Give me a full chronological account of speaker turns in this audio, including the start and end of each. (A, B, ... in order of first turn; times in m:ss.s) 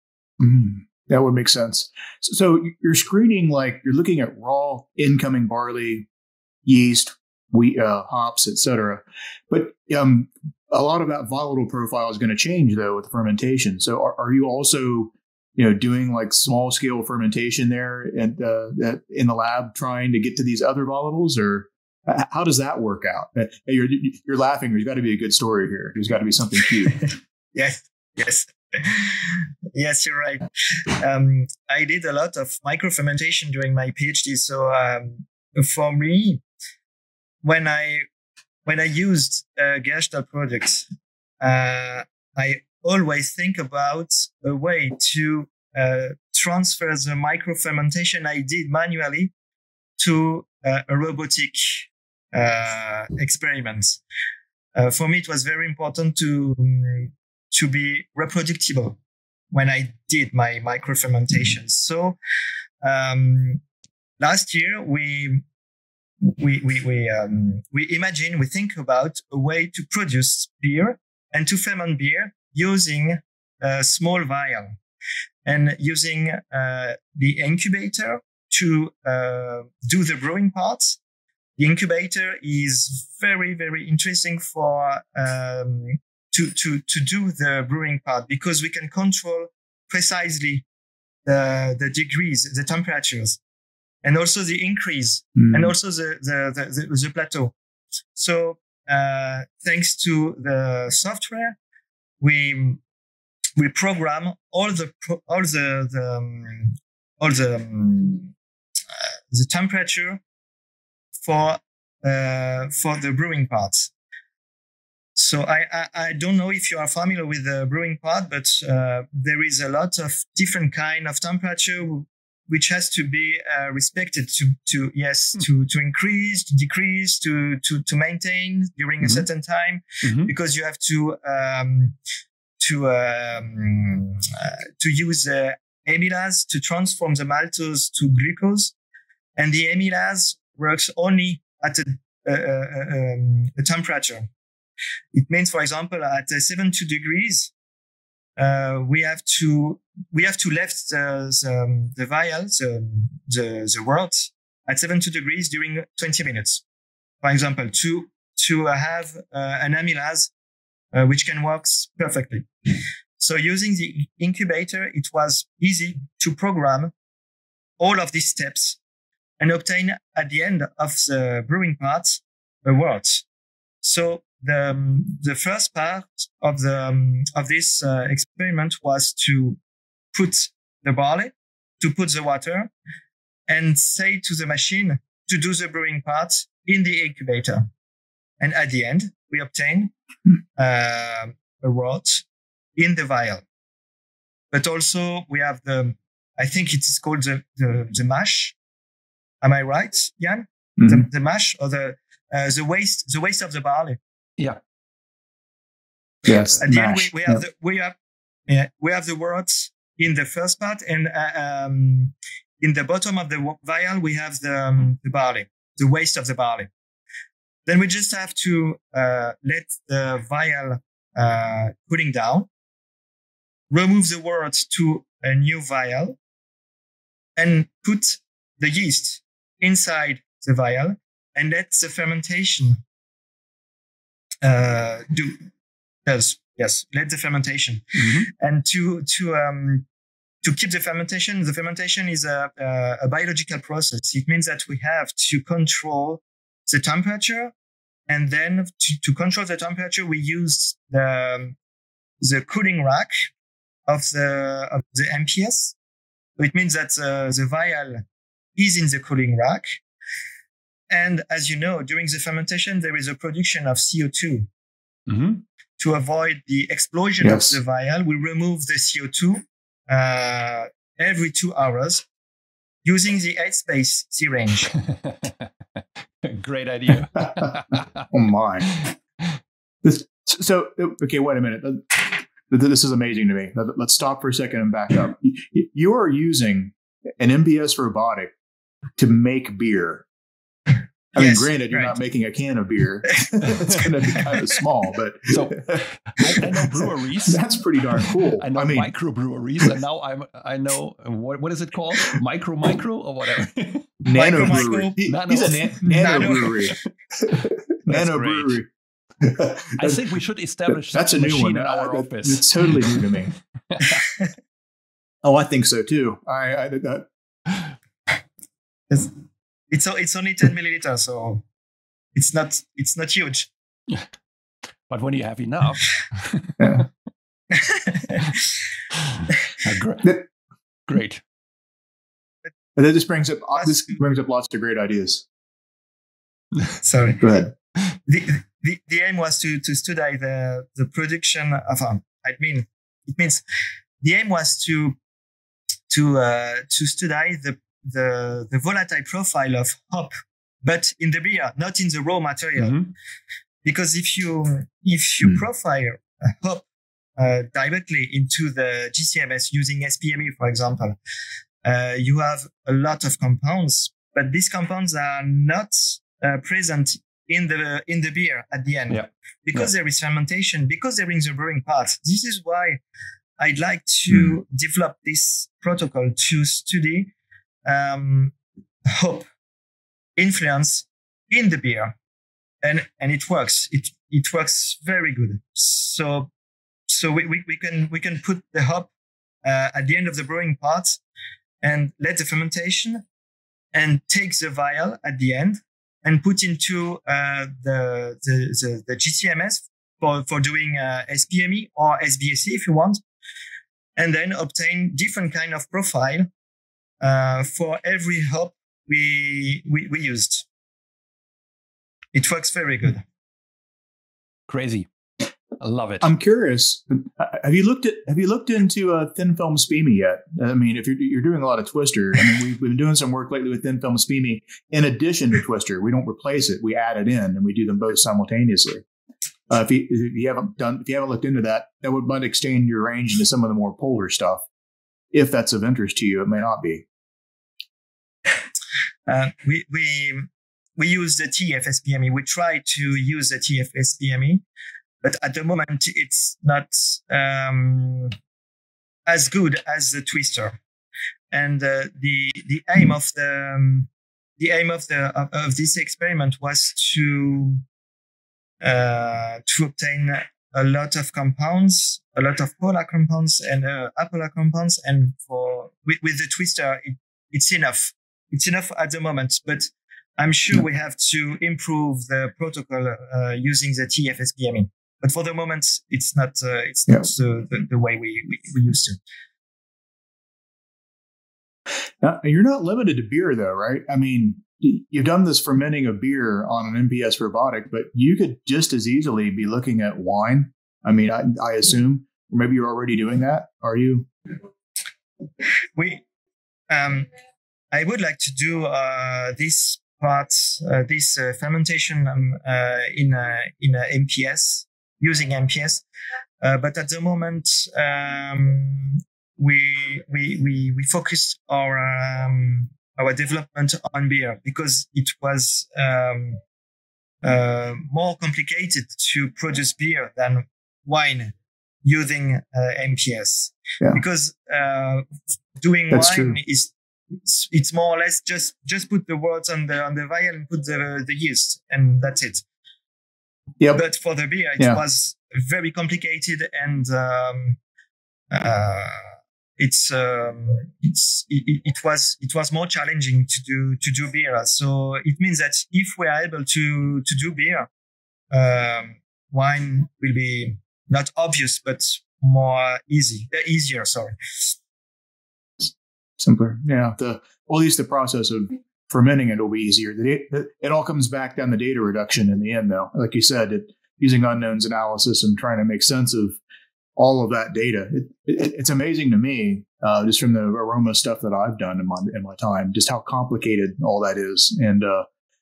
0:00.4-0:06.1 A
0:06.6-0:27.0 A
0:27.5-0:36.4 B
0:37.4-0:38.0 B
0:38.6-0:40.8 B
0:41.4-0:49.3 B
0:50.0-0:54.0 B
0:54.8-0:59.0 B
0:59.5-1:02.2 B
1:02.8-1:03.6 B
1:04.2-1:05.4 B
1:06.2-1:14.8 B
1:15.4-1:21.0 B
1:21.6-1:30.6 B
1:31.2-1:33.4 B
1:34.0-1:37.5 B
1:35.4-1:35.7 A
1:38.1-1:41.6 B
1:42.2-1:42.8 B
1:43.6-1:48.3 B
1:49.3-1:50.2 B
1:51.2-1:53.9 B
1:55.1-2:12.0 B
2:10.0-2:10.3 C
2:12.6-2:18.7 B
2:19.4-2:24.3 B
2:25.1-2:27.5 B
2:28.4-2:36.6 B
2:37.2-2:40.3 B
2:40.9-2:46.9 B
2:47.8-2:48.8 B
2:49.4-2:53.2 B
2:53.8-2:59.6 B
3:00.1-3:02.7 B
3:03.5-3:07.7 B
3:08.4-3:09.9 B
3:10.6-3:12.2 B
3:12.8-3:13.4 B
3:14.5-3:18.6 B
3:19.4-3:24.0 B
3:20.8-3:21.1 A
3:26.2-3:27.4 A
3:26.6-3:28.0 B
3:28.5-3:36.7 B
3:37.6-3:42.5 B
3:43.7-3:46.2 B
3:47.4-3:52.8 B
3:54.4-3:55.5 B
3:56.0-3:59.8 B
3:58.0-3:58.2 C
4:00.4-4:07.5 B
4:08.1-4:11.6 B
4:12.2-4:13.3 B
4:13.9-4:15.8 B
4:16.4-4:18.0 B
4:18.6-4:19.8 B
4:20.9-4:24.5 B
4:25.1-4:25.4 C
4:25.8-4:32.0 B
4:27.2-4:27.6 A
4:32.8-4:34.7 B
4:34.9-4:35.4 C
4:36.2-4:38.0 C
4:37.2-4:38.8 A
4:38.8-4:39.3 C
4:39.8-4:48.3 A
4:49.0-4:50.0 A
4:51.1-4:58.9 A
4:51.2-4:52.0 B
4:55.3-4:57.4 C
4:58.0-5:06.6 C
5:04.0-5:08.7 A
5:04.1-5:05.0 B
5:05.9-5:06.7 B
5:07.9-5:08.6 C
5:09.2-5:10.0 A
5:09.8-5:13.2 C
5:10.7-5:13.3 A
5:13.7-5:14.0 C
5:15.2-5:17.1 A
5:19.7-5:21.4 B
5:22.1-5:23.5 B
5:24.9-5:26.8 C
5:26.6-5:26.8 A
5:27.6-5:28.2 B
5:29.6-5:30.2 C
5:30.9-5:31.2 C
5:32.8-5:35.2 A
5:33.6-5:33.9 B
5:36.8-5:37.5 B
5:37.2-5:37.5 A
5:38.0-5:43.4 B
5:44.0-5:45.0 B
5:45.9-5:50.1 B
5:50.6-5:52.8 B
5:52.6-5:52.9 C
5:53.6-5:56.6 B
5:57.2-6:01.0 B
6:01.6-6:12.8 B
6:08.9-6:09.7 C
6:13.4-6:17.1 B
6:17.6-6:18.3 B
6:18.9-6:19.3 B
6:20.2-6:22.0 B
6:22.6-6:26.3 B
6:26.9-6:28.9 B
6:29.4-6:31.0 B
6:31.6-6:33.0 B
6:33.7-6:43.0 B
6:44.0-6:46.3 B
6:47.0-6:50.4 B
6:52.1-6:53.0 B
6:54.5-6:54.9 C
6:55.6-6:56.1 C
6:56.0-7:08.8 A
7:09.5-7:14.4 A
7:15.1-7:16.8 A
7:19.1-7:24.4 B
7:25.0-7:28.1 B
7:29.1-7:30.6 B
7:31.3-7:37.6 B
7:38.6-7:59.0 B
8:02.0-8:14.1 A
8:15.8-8:16.0 B
8:16.7-8:17.1 B
8:17.7-8:25.8 B
8:26.4-8:36.4 B
8:37.2-8:45.0 B
8:45.6-8:52.4 B
8:45.9-8:46.4 A
8:53.7-8:57.6 B
8:58.3-9:07.7 B
9:08.3-9:14.5 B
9:15.6-9:26.4 A
9:27.0-9:35.0 A